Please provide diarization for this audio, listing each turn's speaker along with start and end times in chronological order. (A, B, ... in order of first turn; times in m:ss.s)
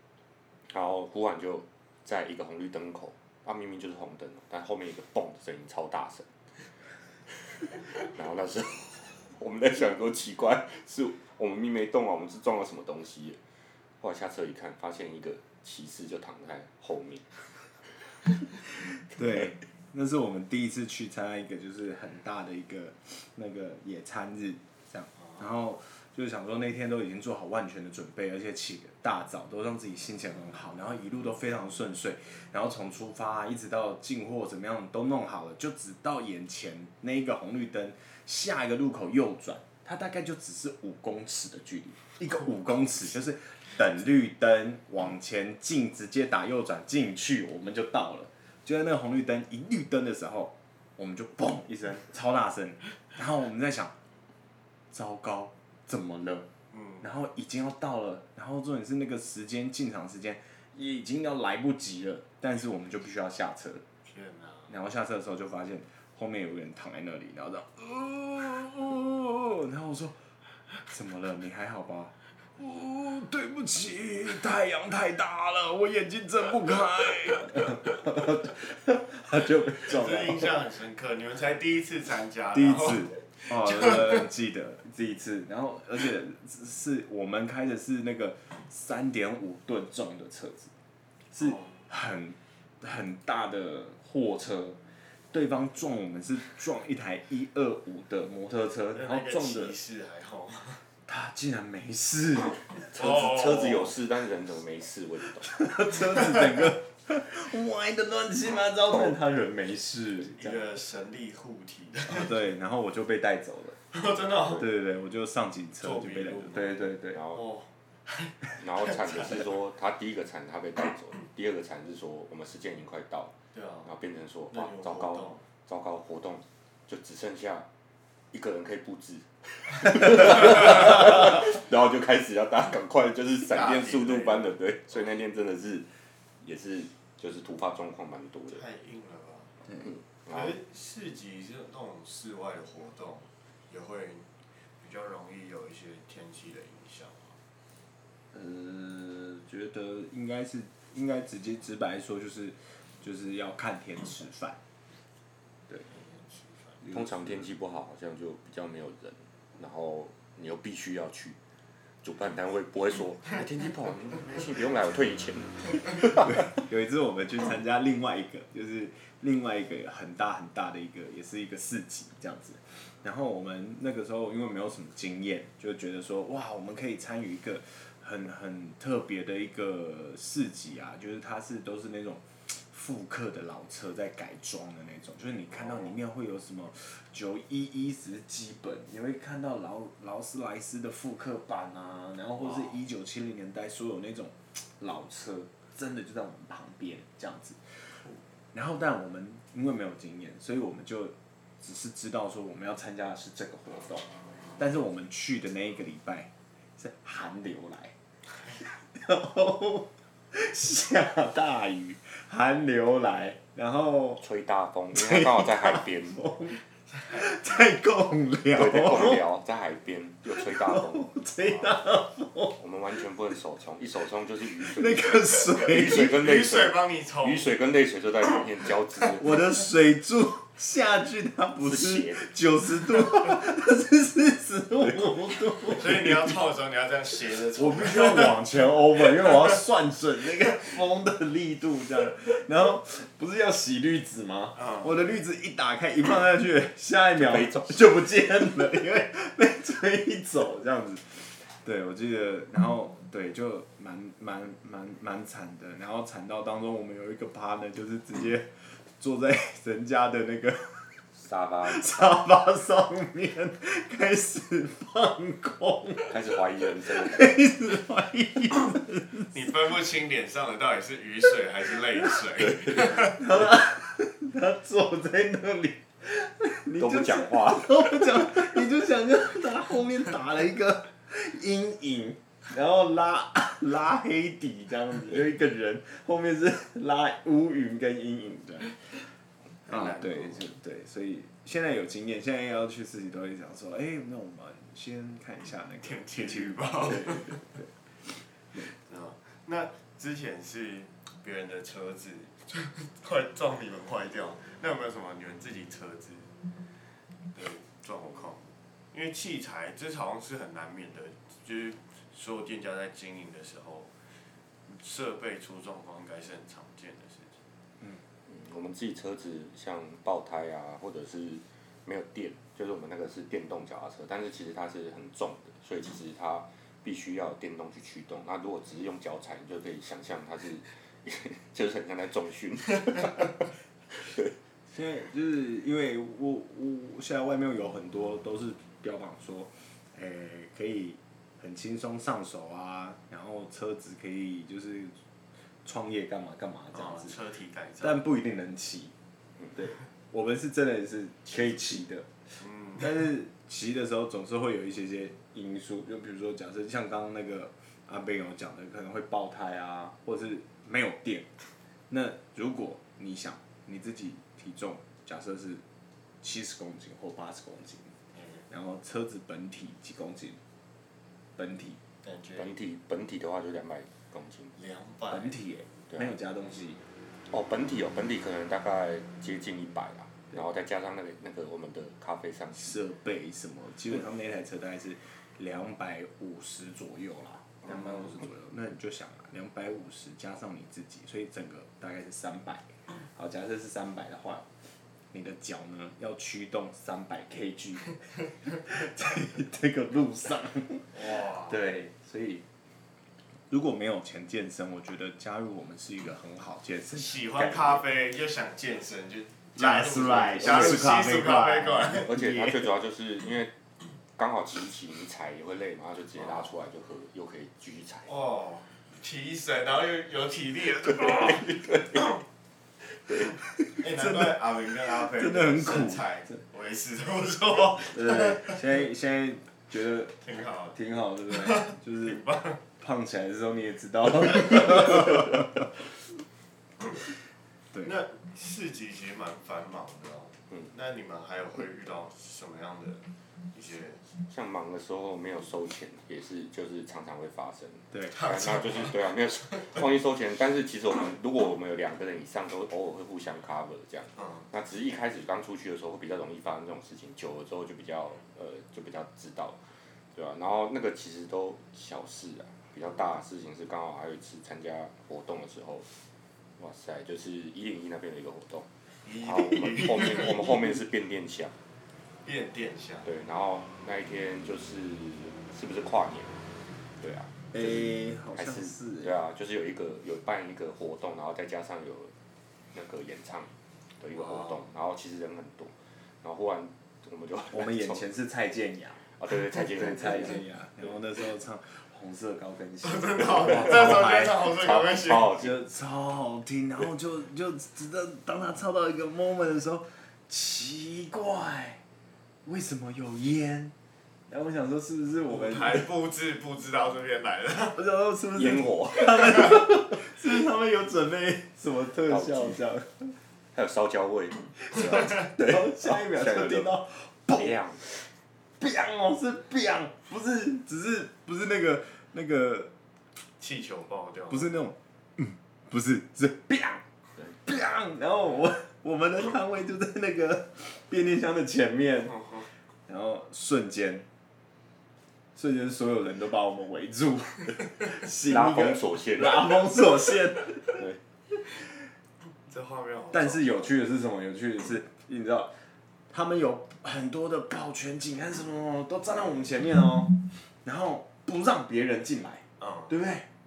0:00.7-0:06.3 A
0:07.6-0:13.4 A
0:14.0-0:17.9 A
0:19.0-0:53.9 B
0:54.9-0:56.5 B
0:56.7-0:57.0 C
0:57.0-1:03.8 B
1:04.0-1:04.7 C
1:04.7-1:10.2 B
1:10.9-1:20.5 B
1:19.8-1:24.2 C
1:22.5-1:30.7 B
1:31.3-1:34.8 B
1:31.4-1:31.8 C
1:35.3-1:39.7 B
1:38.9-1:40.8 C
1:41.1-1:43.2 B
1:42.9-1:43.9 C
1:42.9-1:45.6 A
1:45.4-1:50.7 B
1:48.9-1:49.2 A
1:50.2-1:52.4 C
1:52.0-1:53.8 B
1:53.9-1:54.7 C
1:54.5-1:57.2 B
1:55.8-1:59.4 C
1:57.1-1:57.4 A
1:58.6-2:03.3 A
2:03.5-2:03.9 C
2:03.8-2:07.7 A
2:04.5-2:05.4 C
2:08.3-2:15.9 A
2:13.5-2:15.0 C
2:16.4-2:18.6 A
2:18.5-2:19.5 C
2:19.8-2:20.6 A
2:20.3-2:27.4 C
2:28.3-2:34.6 B
2:35.8-2:36.8 C
2:36.8-2:37.2 B
2:36.9-2:41.4 A
2:42.0-2:46.5 A
2:46.2-3:18.0 B
3:05.5-3:05.9 C
3:12.4-3:12.7 C
3:18.5-3:27.9 B
3:28.6-3:34.2 B
3:34.2-3:36.2 A
3:34.9-3:39.2 B
3:36.9-3:37.2 C
3:38.5-3:41.1 A
3:40.3-3:42.6 B
3:41.4-3:41.7 C
3:42.6-3:49.4 A
3:44.6-3:46.2 B
3:45.9-3:47.5 C
3:49.2-3:56.1 B
3:51.6-3:52.3 A
3:55.7-3:58.6 C
3:57.6-4:21.0 B
4:04.6-4:04.9 C
4:07.2-4:07.9 A
4:21.2-4:21.9 A
4:21.6-4:26.3 B
4:26.0-4:27.4 A
4:26.9-4:29.5 B
4:29.3-4:33.2 C
4:33.0-4:48.9 B
4:36.8-4:38.5 A
4:49.6-4:50.5 C
4:49.7-4:57.7 B
4:55.8-4:57.4 C
4:58.7-5:06.3 C
5:07.3-5:13.9 C
5:14.6-5:17.4 C
5:18.3-5:34.3 A
5:34.7-5:45.0 B
5:45.6-5:47.2 B
5:46.7-5:48.0 C
5:47.8-5:48.9 B
5:49.5-5:52.1 B
5:52.4-5:52.9 C
5:52.8-6:01.3 B
6:01.9-6:05.6 B
6:06.2-6:07.9 B
6:08.1-6:08.4 C
6:08.5-6:10.4 B
6:11.4-6:11.8 B
6:12.0-6:12.5 C
6:12.4-6:14.5 A
6:14.5-6:15.4 C
6:15.1-6:16.8 B
6:17.3-6:22.8 A
6:22.5-6:34.5 B
6:35.1-6:42.4 B
6:40.9-6:41.6 C
6:43.5-6:47.8 B
6:46.9-6:52.1 C
6:49.6-6:52.7 B
6:52.0-6:53.5 A
6:54.2-6:58.1 A
6:56.2-6:56.5 C
6:58.0-7:02.1 C
7:00.9-7:02.1 A
7:03.6-7:04.4 B
7:03.8-7:08.6 C
7:04.9-7:06.3 B
7:07.9-7:10.2 B
7:10.2-7:10.8 C
7:10.7-7:12.2 B
7:11.3-7:12.6 C
7:12.8-7:15.7 B
7:17.8-7:24.0 C
7:24.3-7:39.6 A
7:28.1-7:29.8 C
7:34.2-7:34.5 C
7:40.1-7:45.9 A
7:46.6-7:48.7 A
7:49.0-7:50.6 C
7:49.2-7:51.6 A
7:52.2-7:53.1 C
7:53.0-7:56.4 A
7:57.0-8:02.1 A
7:57.5-7:59.2 B
8:02.7-8:08.0 A
8:04.2-8:04.6 C
8:07.5-8:14.5 B
8:09.2-8:10.4 A
8:12.8-8:15.3 C
8:13.4-8:15.6 A
8:15.3-8:21.8 B
8:22.4-8:23.7 B
8:24.3-8:25.9 B
8:25.3-8:27.8 C
8:27.7-8:33.1 B
8:28.3-8:29.6 A
8:32.1-8:32.6 A
8:33.5-8:36.7 A
8:34.7-8:38.0 B
8:37.3-8:37.8 A
8:38.6-8:42.7 B
8:43.4-8:44.5 C
8:44.3-8:46.8 B
8:47.4-8:52.2 B
8:52.1-8:52.4 C
8:52.9-8:54.1 B
8:55.3-9:00.8 B
8:58.2-8:59.8 A
9:02.4-9:03.7 C
9:03.1-9:05.5 B
9:06.1-9:13.3 B
9:12.6-9:12.9 C